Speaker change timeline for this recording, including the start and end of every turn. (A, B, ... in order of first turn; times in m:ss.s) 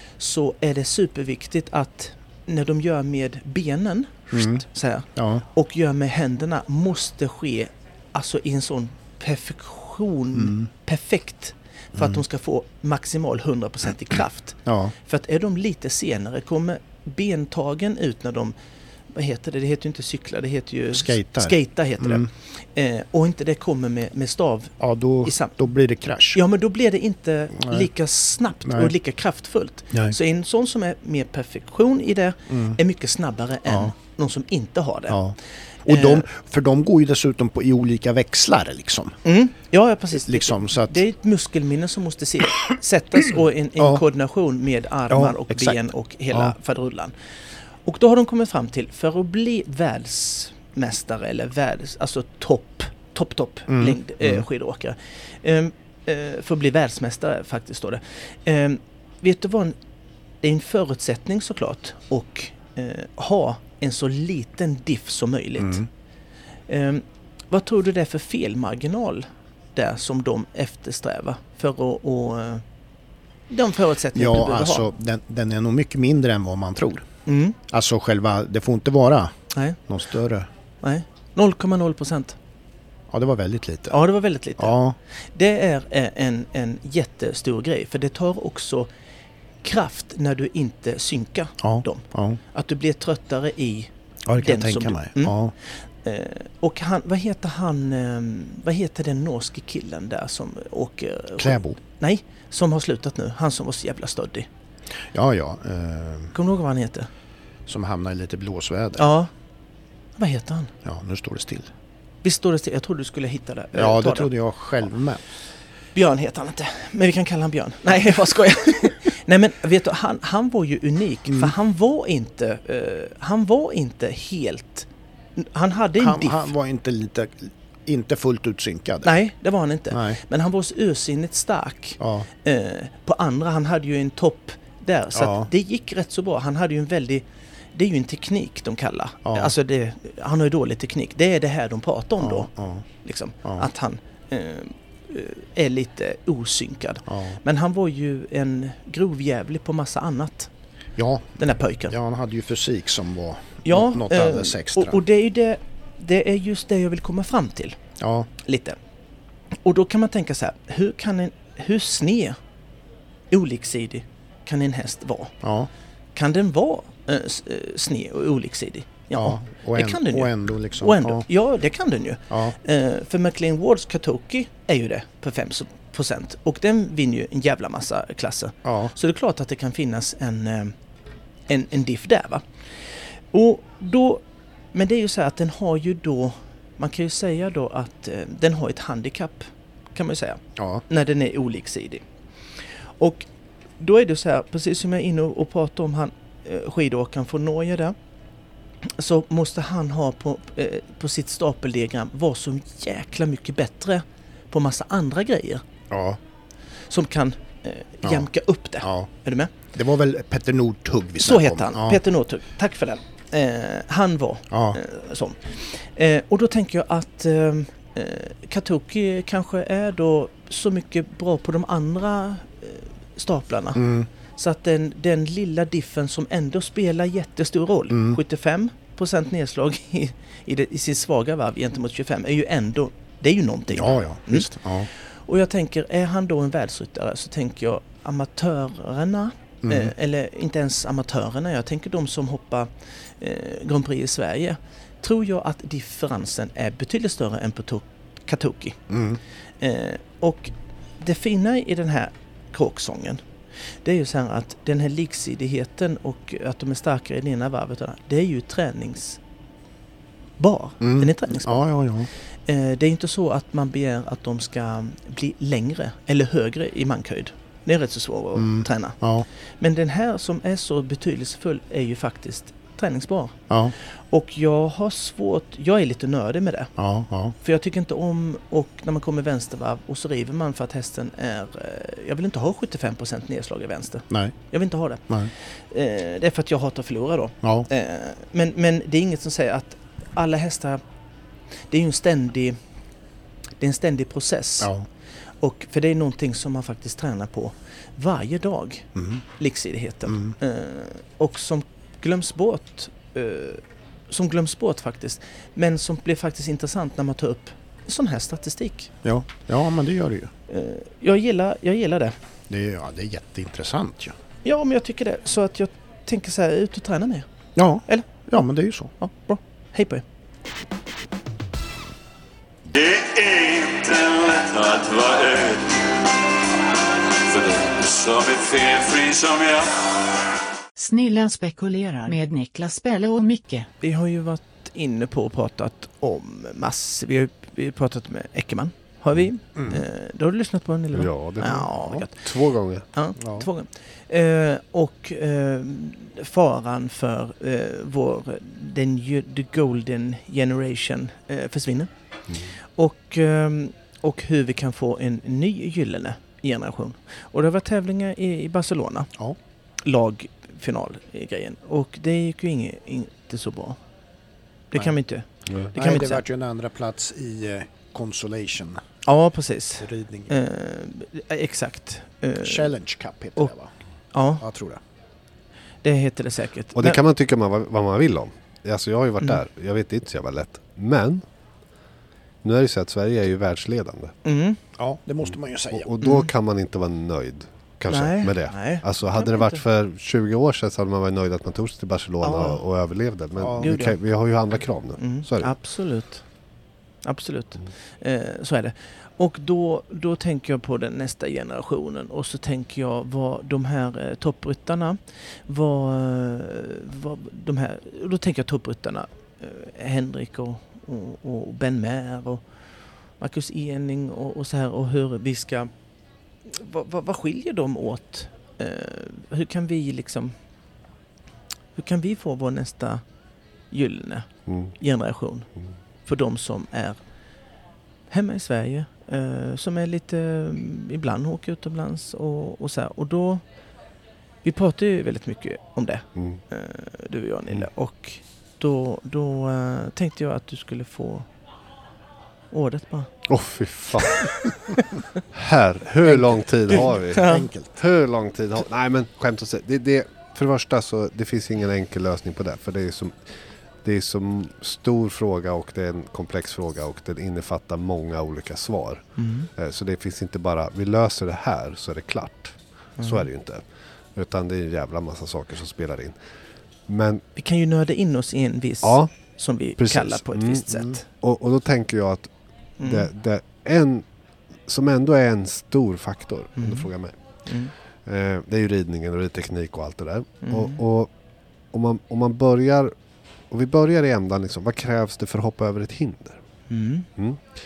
0:00.2-0:18.5 A
0:04.3-0:04.6 B
0:05.2-0:05.4 B
0:10.3-0:10.7 B
0:12.0-0:12.2 B
0:14.6-0:14.9 B
0:19.1-0:25.6 A
0:20.9-0:22.3 B
0:24.8-0:26.4 B
0:26.3-0:35.2 A
0:27.6-0:27.9 B
0:28.6-0:28.9 B
0:32.5-0:32.8 B
0:33.7-0:33.9 B
0:35.1-0:39.2 B
0:35.8-0:36.3 A
0:39.2-0:47.1 A
0:40.2-0:41.0 B
0:43.8-0:44.0 B
0:45.1-0:46.5 B
0:47.8-0:59.7 A
0:53.7-0:54.4 B
1:00.4-1:05.8 A
1:05.6-1:05.9 B
1:06.7-1:12.6 A
1:13.5-1:14.9 A
1:14.1-1:17.1 B
1:17.2-1:17.6 A
1:17.7-1:19.3 B
1:19.5-1:19.8 A
1:19.9-1:20.5 B
1:20.8-1:22.4 A
1:23.1-1:24.0 B
1:23.9-1:24.8 A
1:24.6-1:25.0 B
1:25.3-1:28.9 A
1:29.6-1:35.4 A
1:31.6-1:32.4 B
1:34.3-1:35.5 B
1:36.0-1:44.5 A
1:41.4-1:41.8 B
1:45.1-1:46.3 B
1:46.3-1:47.1 A
1:47.7-1:49.1 B
1:49.0-1:49.3 A
1:50.2-1:50.7 A
1:50.8-1:51.7 B
1:52.2-1:54.3 A
1:53.7-1:55.2 B
1:55.9-2:06.5 A
2:06.0-2:09.1 B
2:09.0-2:30.5 A
2:09.9-2:10.2 B
2:12.0-2:12.3 B
2:15.1-2:15.5 B
2:19.2-2:19.5 B
2:22.2-2:22.8 B
2:27.1-2:27.4 B
2:31.0-2:35.0 B
2:31.4-2:31.9 A
2:33.6-2:37.8 A
2:38.0-2:38.3 B
2:38.4-2:38.8 A
2:39.6-2:42.4 A
2:43.3-2:45.3 A
2:45.4-2:45.7 B
2:46.1-3:00.7 A
2:49.2-2:51.2 B
2:52.3-2:52.5 B
2:58.6-2:58.9 B
3:01.5-3:02.4 A
3:03.3-3:12.0 A
3:10.6-3:10.8 B
3:13.0-3:13.3 A
3:13.8-3:17.9 A
3:18.8-3:25.6 A
3:25.9-3:26.2 B
3:26.9-3:29.5 A
3:28.0-3:28.3 B
3:28.8-3:29.1 B
3:29.7-3:32.0 B
3:31.2-3:54.5 A
3:34.5-3:34.8 B
3:43.7-3:44.1 B
3:47.9-3:48.2 B
3:53.7-3:54.9 B
3:55.2-4:08.8 A
3:59.6-3:59.9 B
4:08.9-4:09.2 B
4:09.6-4:13.2 A
4:13.8-4:19.2 A
4:20.4-4:21.6 A
4:20.8-4:22.1 B
4:22.4-4:29.0 A
4:28.4-4:29.2 B
4:29.6-4:36.7 A
4:36.8-4:37.3 B
4:37.4-4:50.8 A
4:44.1-4:44.3 B
4:47.4-4:47.7 B
4:51.7-4:52.6 A
4:53.6-4:54.7 A
4:54.6-4:54.8 B
4:55.4-5:08.9 A
4:58.9-4:59.2 B
5:00.1-5:00.3 B
5:09.0-5:10.3 B
5:10.5-5:12.1 A
5:12.5-5:14.1 B
5:14.4-5:17.3 A
5:17.6-5:18.9 B
5:19.0-5:20.0 A
5:22.6-5:25.9 C
5:27.2-5:29.8 C
5:30.8-5:33.7 D
5:33.8-5:42.2 A
5:39.6-5:39.8 B
5:40.9-5:42.8 E
5:42.9-5:51.9 A
5:43.2-5:43.5 B
5:52.8-5:59.1 A
5:59.8-6:03.8 A
6:04.7-6:06.2 A
6:05.5-6:05.7 E
6:05.7-6:08.8 B
6:09.0-6:12.7 A
6:09.8-6:10.3 B
6:12.4-6:13.7 B
6:14.1-6:14.4 A
6:14.4-6:14.8 B
6:15.8-6:17.0 A
6:16.8-6:21.2 E
6:22.4-6:24.1 E
6:24.2-6:24.6 A
6:24.8-6:25.9 B
6:25.7-6:35.5 E
6:26.0-6:26.3 A
6:27.9-6:29.6 A
6:32.2-6:32.6 A
6:33.4-6:33.7 B
6:33.6-6:34.0 A
6:35.0-6:36.2 A
6:37.0-6:52.4 A
6:53.2-6:55.7 A
6:56.4-7:00.3 A
7:01.8-7:03.0 A
7:03.7-7:05.5 A
7:04.5-7:04.7 E
7:06.0-7:07.0 A
7:08.1-7:13.4 A
7:14.4-7:21.3 A
7:16.2-7:16.4 E
7:22.5-7:23.1 A
7:23.3-7:24.8 E
7:24.0-7:24.8 A
7:25.3-7:33.2 E
7:26.0-7:27.8 B
7:26.7-7:27.5 A
7:33.8-7:43.6 E
7:39.2-7:39.5 A
7:43.0-7:43.2 A
7:44.2-7:46.1 E
7:46.9-7:47.2 E
7:47.4-7:51.0 A
7:48.8-7:49.1 E
7:49.8-7:52.3 E
7:52.8-7:53.1 A
7:52.8-7:54.0 E
7:54.7-7:57.2 E
7:56.6-7:56.9 A
7:57.4-7:57.7 A
7:58.0-8:01.1 E
8:00.4-8:00.8 A
8:01.7-8:02.9 E
8:03.5-8:06.4 E
8:06.7-8:07.1 A
8:07.2-8:07.4 E